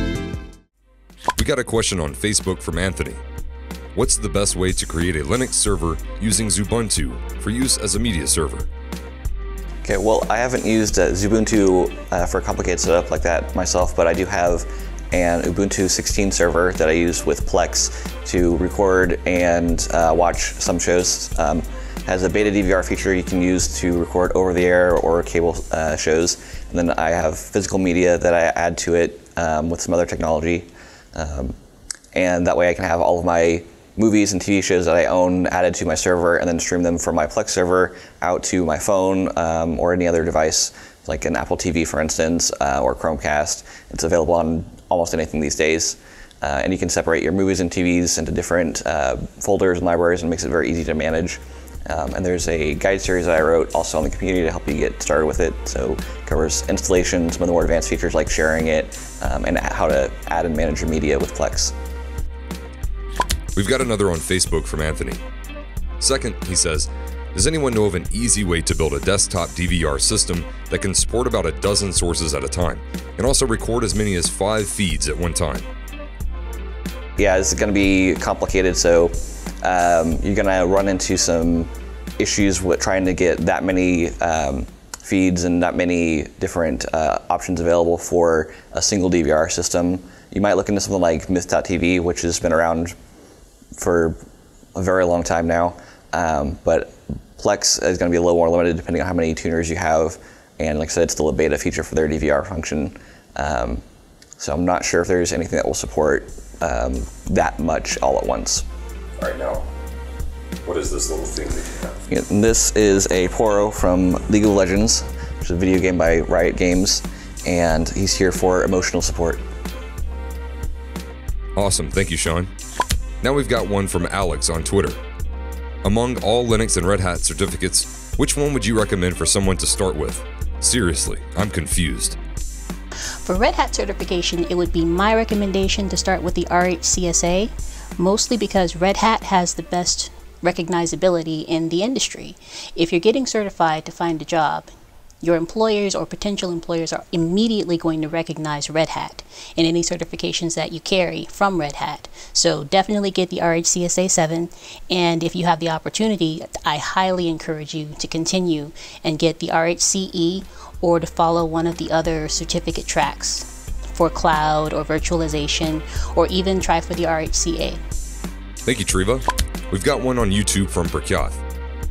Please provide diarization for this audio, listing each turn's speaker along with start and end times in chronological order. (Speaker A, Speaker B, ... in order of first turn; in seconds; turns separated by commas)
Speaker A: 1.4-3.2, Speaker A: 3.9-8.7, Speaker B: 9.8-31.6, Speaker B: 32.1-61.7, Speaker A: 63.5-65.2, Speaker A: 66.0-75.7, Speaker B: 77.2-92.9, Speaker B: 93.8-94.2, Speaker B: 94.8-103.8, Speaker B: 104.4-108.7, Speaker A: 109.2-109.7, Speaker A: 110.6-112.0, Speaker B: 112.1-119.4, Speaker A: 121.6-122.5, Speaker A: 123.2-125.0, Speaker A: 125.8-132.2, Speaker C: 133.2-144.7, Speaker C: 145.2-167.8, Speaker A: 168.7-171.4